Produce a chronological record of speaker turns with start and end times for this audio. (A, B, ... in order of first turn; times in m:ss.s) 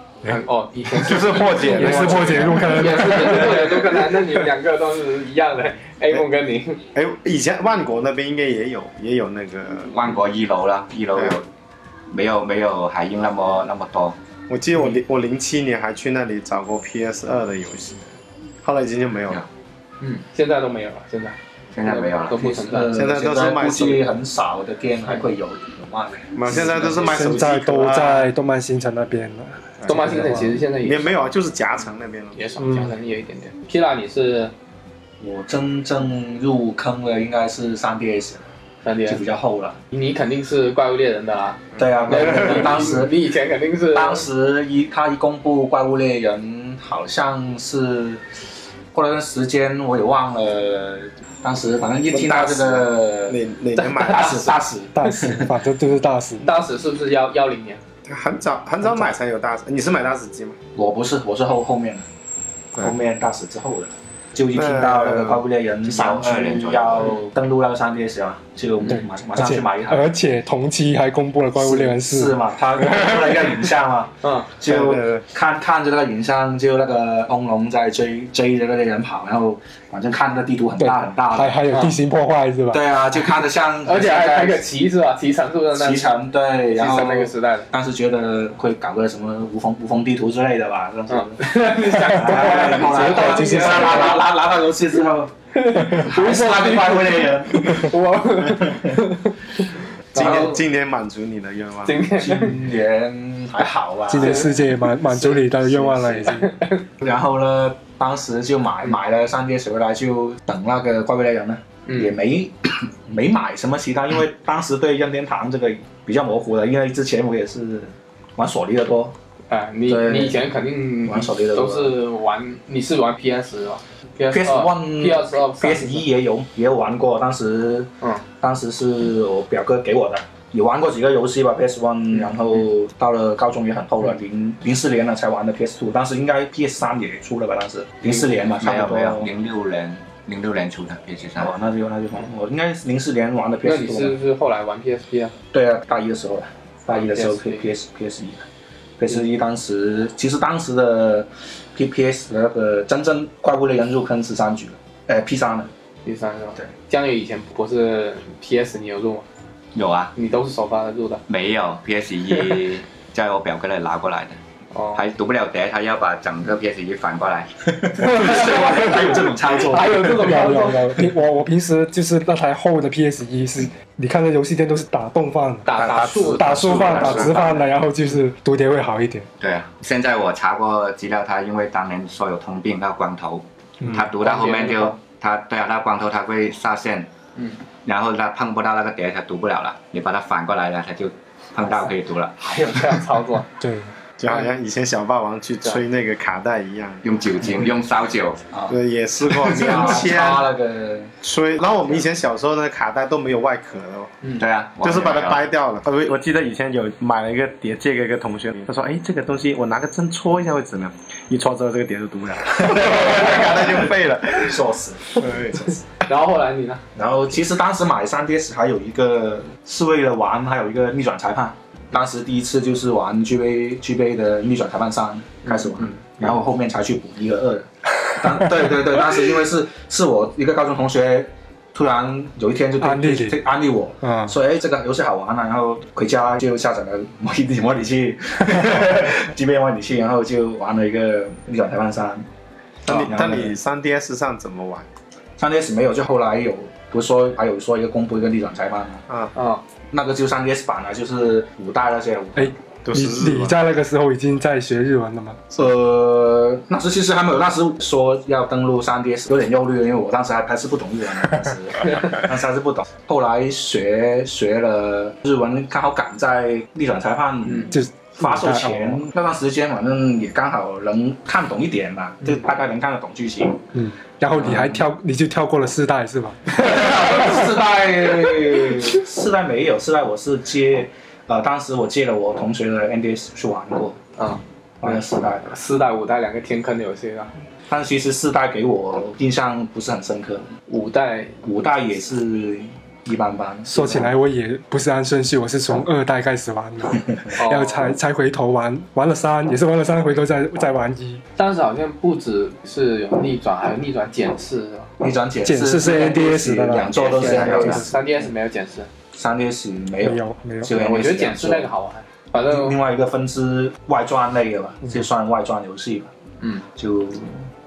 0:00.2-0:06.8 A
0:00.9-0:03.4 B
0:01.7-0:04.0 C
0:06.9-0:10.0 B
0:09.9-0:11.4 D
0:12.1-0:14.2 D
0:14.5-0:18.1 B
0:18.6-0:19.4 B
0:20.0-0:22.9 A
0:21.7-0:22.4 D
0:22.3-0:27.1 E
0:22.9-0:24.0 B
0:26.3-0:28.3 B
0:27.0-0:30.5 C
0:29.8-0:32.4 B
0:29.9-0:31.2 A
0:32.3-0:34.5 A
0:32.6-0:32.9 C
0:35.2-0:38.4 E
0:38.8-0:39.2 A
0:39.0-0:39.8 E
0:39.9-0:44.3 A
0:41.7-0:42.0 B
0:41.8-0:43.2 E
0:43.9-0:48.2 E
0:48.9-0:55.5 E
0:52.1-0:54.4 B
0:53.8-0:54.6 A
0:54.9-0:56.5 C
0:56.4-0:57.8 A
0:58.0-1:00.6 B
1:00.7-1:02.0 E
1:02.7-1:10.1 E
1:04.5-1:05.4 B
1:05.8-1:07.2 D
1:08.9-1:13.2 C
1:11.6-1:21.6 E
1:14.2-1:14.5 A
1:14.6-1:15.2 B
1:20.8-1:22.8 C
1:21.7-1:22.0 A
1:22.7-1:24.6 E
1:23.8-1:27.7 A
1:25.7-1:39.0 E
1:31.1-1:34.3 A
1:32.1-1:34.2 C
1:35.5-1:40.6 A
1:40.1-1:42.0 B
1:40.2-1:40.6 E
1:41.8-1:42.6 A
1:42.2-1:44.5 E
1:44.1-1:46.5 C
1:44.2-1:44.6 A
1:45.7-1:46.2 E
1:46.2-1:46.8 A
1:47.0-1:59.1 E
1:51.8-1:52.1 A
1:59.5-2:06.0 A
1:59.9-2:00.4 E
2:01.0-2:02.0 E
2:04.3-2:19.3 E
2:18.1-2:21.5 D
2:21.4-2:24.2 E
2:23.6-2:25.3 A
2:25.5-2:28.4 E
2:26.9-2:27.7 A
2:29.0-2:35.7 E
2:36.0-2:39.2 A
2:39.7-2:40.1 D
2:40.1-2:41.2 A
2:41.3-2:44.4 D
2:44.7-2:45.0 A
2:44.9-2:47.5 D
2:47.7-2:50.5 E
2:48.0-2:51.0 A
2:48.0-2:48.4 D
2:50.0-2:59.3 C
2:55.6-2:57.4 A
2:55.7-2:57.6 B
2:56.5-2:57.4 D
2:59.4-3:07.1 D
3:03.8-3:04.1 C
3:04.2-3:05.0 A
3:07.8-3:12.3 D
3:12.4-3:13.5 A
3:13.6-3:13.9 C
3:14.2-3:17.0 B
3:17.0-3:18.4 D
3:18.7-3:20.5 B
3:19.3-3:21.1 E
3:21.2-3:24.1 B
3:24.4-3:25.4 D
3:24.8-3:34.6 B
3:33.1-3:33.7 E
3:34.3-3:35.6 E
3:35.2-3:35.7 B
3:36.0-3:36.8 A
3:37.0-4:02.3 E
3:45.4-3:46.0 A
3:52.8-3:53.4 C
3:54.0-3:54.3 C
4:02.8-4:04.8 B
4:02.9-4:03.5 E
4:05.4-4:09.0 E
4:09.3-4:09.6 A
4:09.9-4:12.5 E
4:12.4-4:15.5 C
4:12.8-4:13.6 B
4:15.5-4:33.6 E
4:27.5-4:27.7 A
4:27.7-4:29.0 C
4:33.7-4:37.2 C
4:34.4-4:34.8 E
4:36.5-4:44.0 E
4:44.2-4:47.3 A
4:44.8-4:45.5 E
4:47.7-4:50.5 E
4:50.7-4:51.4 A
4:51.4-4:54.1 E
4:53.7-5:01.2 C
4:57.3-4:57.9 A
5:01.4-5:04.9 A
5:05.0-5:08.0 E
5:05.4-5:07.9 C
5:06.8-5:08.9 A
5:07.0-5:07.8 D
5:09.1-5:11.7 E
5:10.0-5:10.8 C
5:10.7-5:12.8 A
5:12.4-5:16.1 E
5:16.7-5:17.5 E